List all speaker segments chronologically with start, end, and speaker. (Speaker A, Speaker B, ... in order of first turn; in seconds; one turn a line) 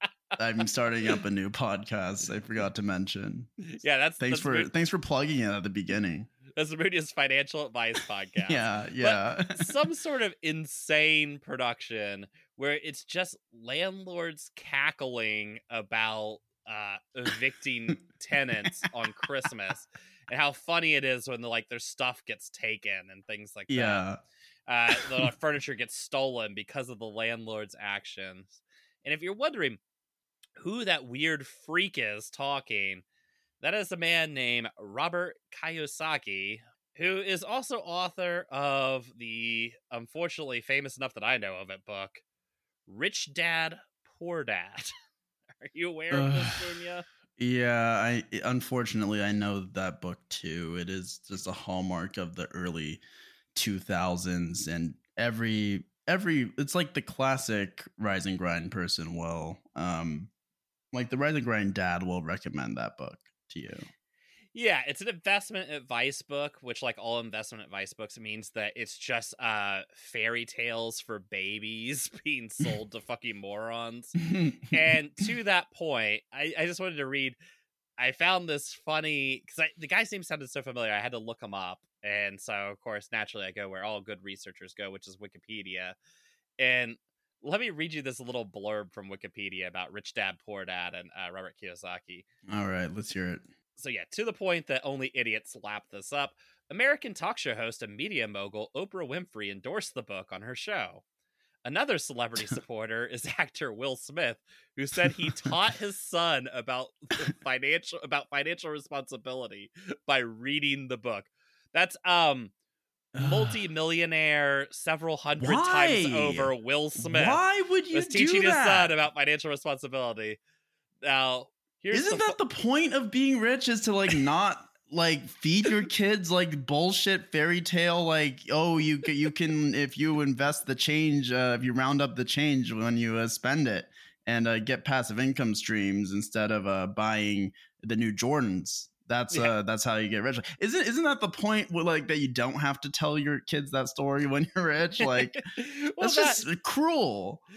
Speaker A: 0.4-3.5
Speaker B: 3.7-4.7
Speaker A: 4.2-6.3
Speaker B: 6.5-24.1
Speaker A: 8.4-9.8
Speaker A: 23.7-24.2
Speaker B: 24.7-29.8
Speaker A: 24.9-25.3
Speaker B: 30.6-33.0
Speaker B: 33.6-42.2
Speaker B: 42.9-44.9
Speaker B: 45.6-47.0
Speaker A: 46.1-46.7
Speaker A: 47.4-53.0
Speaker A: 53.5-60.3
Speaker A: 60.9-63.9
Speaker B: 64.5-74.2
Speaker A: 74.3-74.7
Speaker B: 74.7-77.4
Speaker B: 78.0-86.0
Speaker B: 86.6-92.2
Speaker A: 92.5-93.4
Speaker B: 93.8-101.0
Speaker B: 101.7-112.5
Speaker A: 113.1-113.6
Speaker B: 113.2-120.4
Speaker A: 115.4-118.9
Speaker B: 121.0-122.4
Speaker A: 121.9-145.4
Speaker B: 139.3-139.6
Speaker B: 145.0-146.5
Speaker A: 146.0-147.4